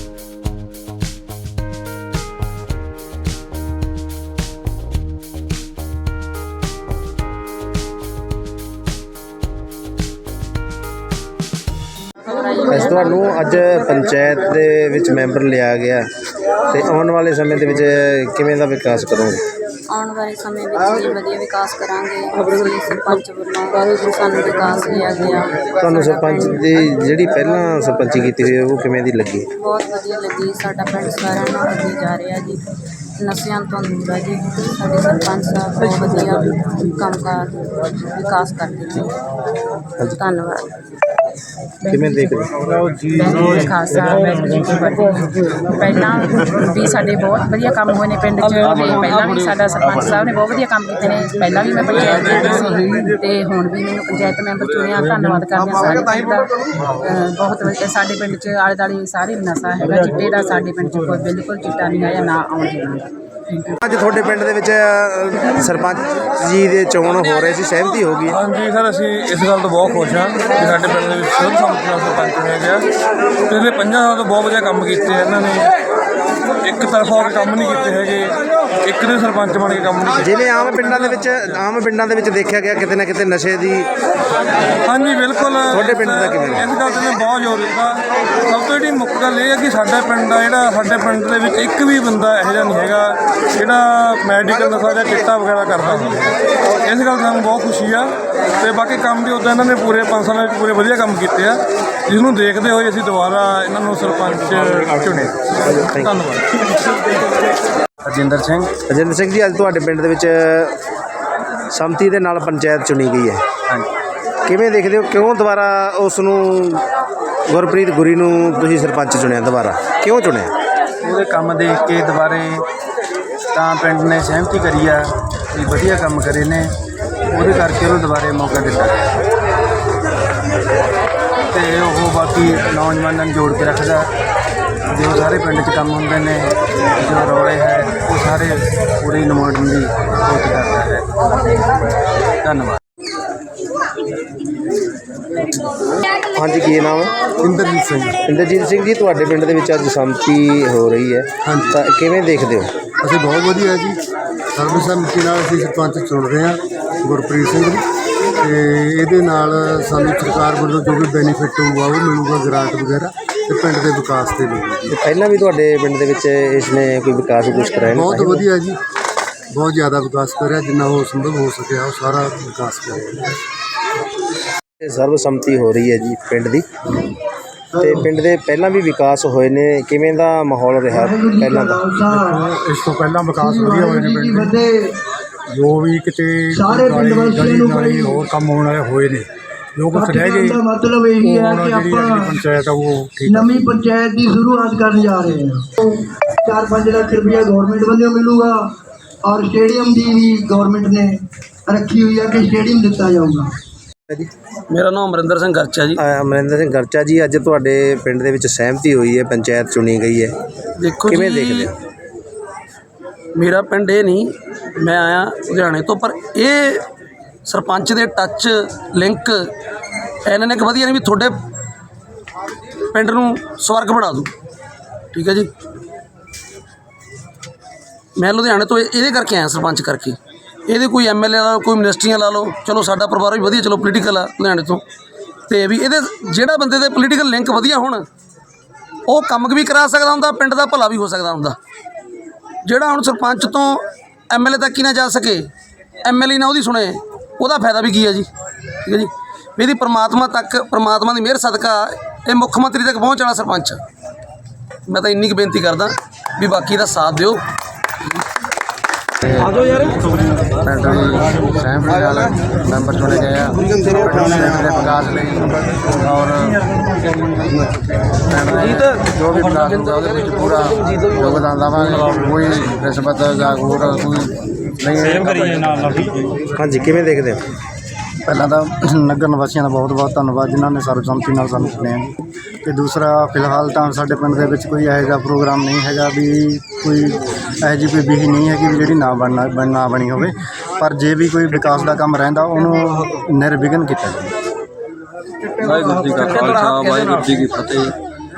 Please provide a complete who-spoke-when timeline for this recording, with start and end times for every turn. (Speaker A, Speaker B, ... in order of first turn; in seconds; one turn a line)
Speaker A: 12.2-13.7
Speaker B: 12.7-16.1
Speaker B: 16.7-19.4
Speaker A: 19.9-26.3
Speaker B: 25.6-29.5
Speaker A: 29.6-32.6
Speaker A: 33.2-39.1
Speaker A: 40.2-40.7
Speaker C: 41.8-42.5
Speaker B: 41.9-42.5
Speaker C: 43.0-63.8
Speaker D: 52.2-52.4
Speaker B: 63.8-68.4
Speaker D: 68.3-72.9
Speaker D: 73.5-75.7
Speaker D: 76.6-80.3
Speaker B: 80.2-83.9
Speaker D: 84.9-96.3
Speaker B: 85.7-86.7
Speaker D: 96.8-106.5
Speaker B: 105.9-106.2
Speaker E: 108.0-108.8
Speaker B: 108.9-110.7
Speaker B: 111.7-113.4
Speaker B: 114.5-116.8
Speaker B: 117.5-120.5
Speaker E: 121.0-122.6
Speaker F: 121.2-121.8
Speaker F: 123.6-124.9
Speaker E: 123.6-125.0
Speaker E: 125.6-126.6
Speaker F: 125.6-126.4
Speaker F: 127.4-128.6
Speaker E: 127.5-128.9
Speaker F: 131.6-133.9
Speaker E: 131.6-133.9
Speaker F: 135.0-136.2
Speaker E: 135.1-136.3
Speaker F: 137.1-138.1
Speaker E: 137.2-138.5
Speaker F: 139.0-140.9
Speaker E: 139.1-139.7
Speaker E: 140.3-140.8
Speaker B: 146.3-147.3
Speaker G: 147.4-148.2
Speaker B: 148.2-152.7
Speaker G: 151.4-151.8
Speaker G: 153.0-154.0
Speaker G: 154.6-157.8
Speaker G: 158.4-164.9
Speaker B: 164.9-168.4
Speaker G: 167.9-168.8
Speaker G: 169.5-173.3
Speaker B: 174.8-176.7
Speaker H: 177.7-178.1
Speaker B: 177.8-181.9
Speaker H: 180.9-182.5
Speaker I: 182.3-184.4
Speaker H: 183.3-184.9
Speaker I: 185.5-190.6
Speaker H: 186.5-188.2
Speaker H: 189.9-192.4
Speaker I: 191.3-193.3
Speaker H: 193.2-198.7
Speaker H: 199.2-203.5
Speaker J: 204.7-206.0
Speaker B: 206.0-210.3
Speaker J: 210.8-211.7
Speaker B: 211.1-211.7
Speaker J: 213.3-216.8
Speaker J: 217.4-219.4
Speaker J: 220.3-221.3
Speaker J: 222.9-224.3
Speaker J: 225.1-225.5
Speaker J: 228.2-230.2
Speaker J: 230.7-234.8
Speaker J: 235.5-238.1
Speaker J: 239.1-241.6
Speaker J: 242.7-245.5
Speaker J: 246.1-248.3
Speaker J: 248.8-253.8
Speaker J: 254.9-257.4
Speaker F: 260.7-263.5
Speaker F: 264.0-265.4
Speaker F: 266.0-266.5
Speaker F: 268.3-274.3
Speaker J: 270.9-271.2
Speaker F: 274.8-276.2
Speaker B: 276.6-277.4
Speaker E: 278.2-294.4
Speaker K: 295.6-297.9